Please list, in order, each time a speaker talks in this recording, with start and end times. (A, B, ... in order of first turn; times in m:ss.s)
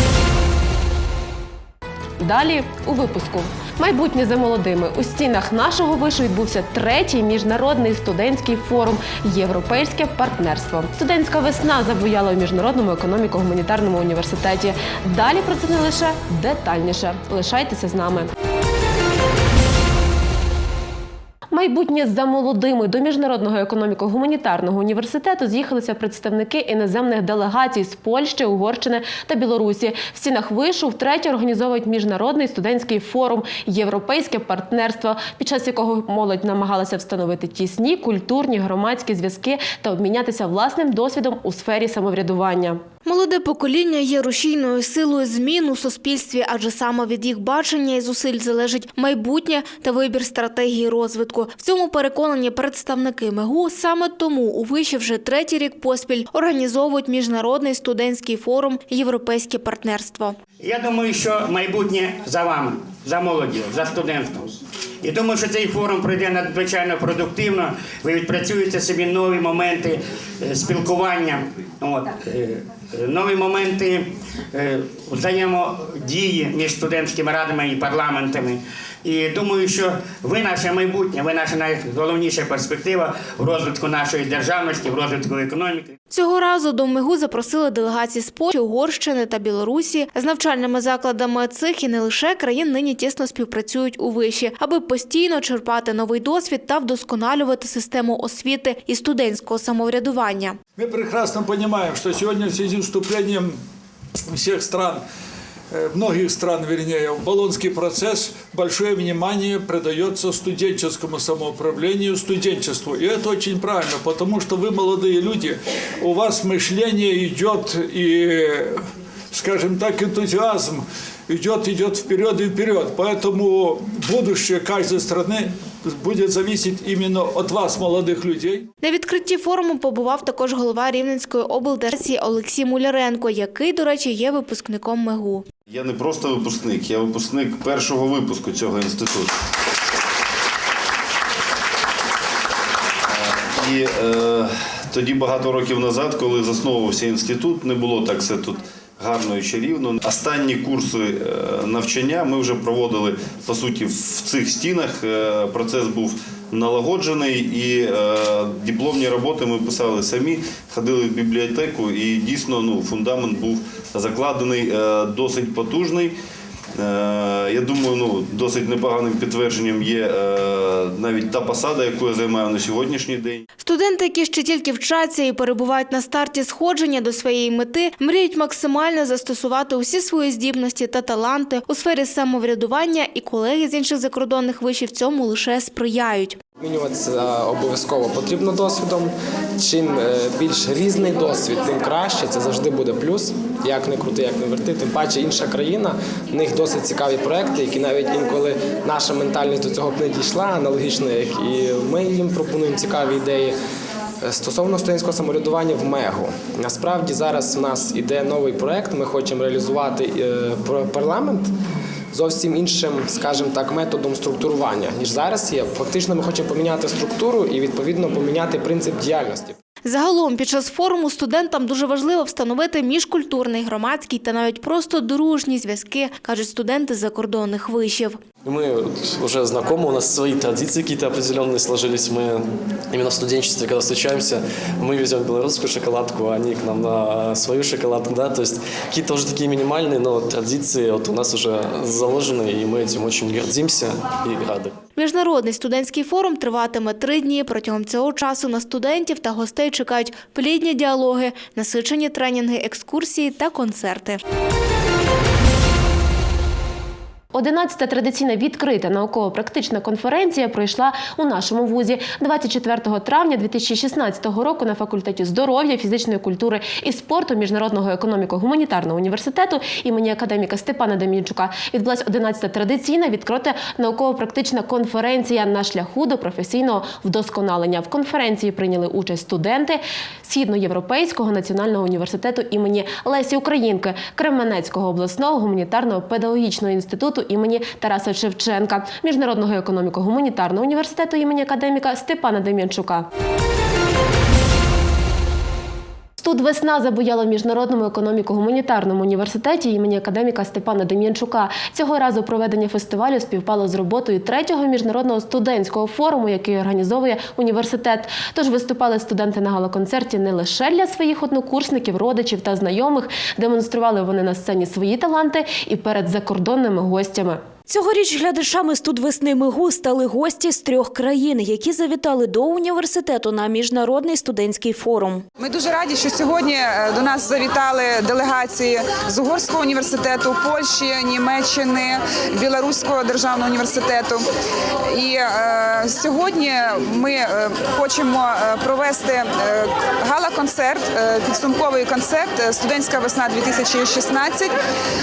0:02.2-0:18.3 A
0:21.5-0:42.8 A
0:43.0-1:00.4 B
1:00.6-1:04.5 C
1:05.0-1:25.9 C
1:26.1-1:40.6 B
1:40.8-1:43.6 D
1:44.3-1:45.0 D
1:45.7-1:58.8 D
1:59.3-2:08.6 D
2:08.8-2:15.4 B
2:15.7-2:19.3 E
2:23.1-2:46.2 E
2:46.8-2:53.4 E
2:53.6-3:06.4 B
3:06.6-3:23.5 F
3:24.2-3:31.5 F
3:32.1-3:39.5 F
3:39.8-3:48.2 B
3:48.4-4:04.8 G
4:05.0-4:14.2 B
4:17.3-4:53.1 A
4:56.2-5:17.4 A
5:17.7-5:25.2 H
5:25.4-5:34.2 I
5:34.9-5:44.5 I